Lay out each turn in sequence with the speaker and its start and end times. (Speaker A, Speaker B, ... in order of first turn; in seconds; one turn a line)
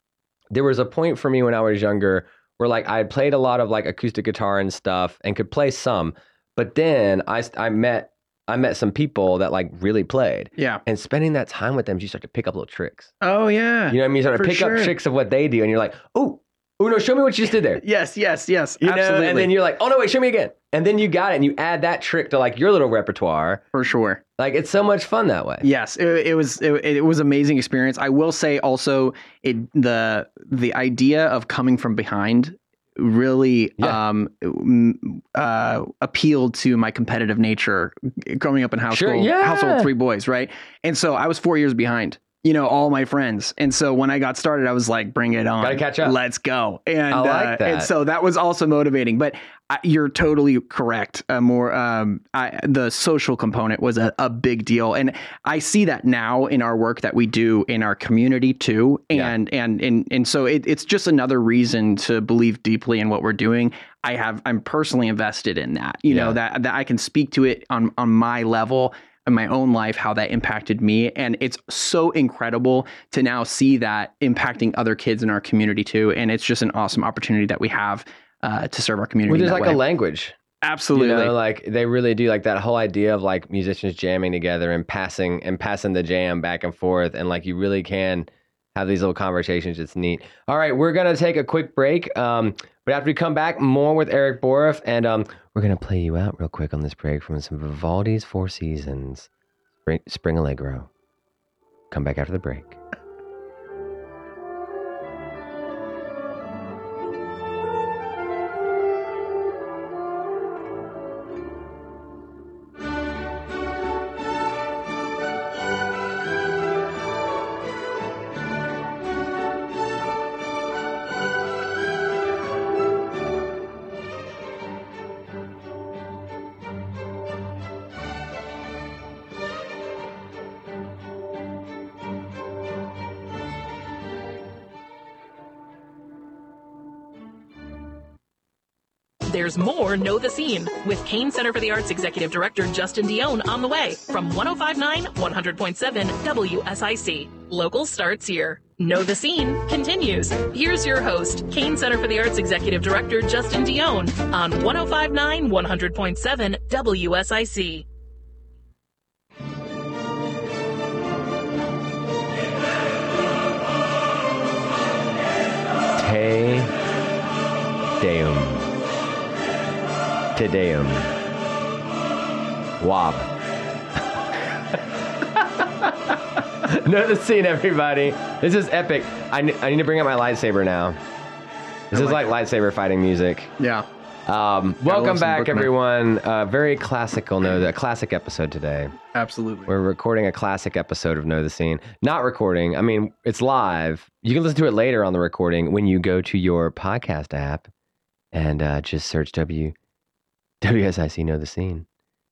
Speaker A: 0.5-13.1
Speaker B: 10.6-10.8
Speaker B: 13.2-14.9
Speaker A: 13.9-17.8
Speaker B: 17.8-19.5
Speaker A: 18.8-23.6
Speaker B: 23.7-24.2
Speaker A: 24.4-25.6
Speaker B: 25.6-79.8
Speaker A: 38.9-39.9
Speaker A: 45.6-46.1
Speaker A: 47.1-47.9
Speaker A: 66.1-66.3
Speaker A: 79.3-80.3
Speaker B: 80.6-81.3
Speaker A: 80.9-99.3
Speaker A: 99.8-100.9
Speaker A: 101.9-102.8
Speaker C: 139.3-157.8
Speaker A: 166.0-166.7
Speaker A: 168.0-168.7
Speaker A: 170.3-171.1
Speaker A: 172.8-173.3
Speaker A: 176.6-181.0
Speaker A: 181.9-183.5
Speaker B: 181.9-182.2
Speaker B: 183.6-183.8
Speaker A: 184.3-188.9
Speaker B: 184.8-185.7
Speaker B: 189.1-189.7
Speaker A: 189.7-197.7
Speaker A: 198.3-199.7
Speaker A: 200.6-201.8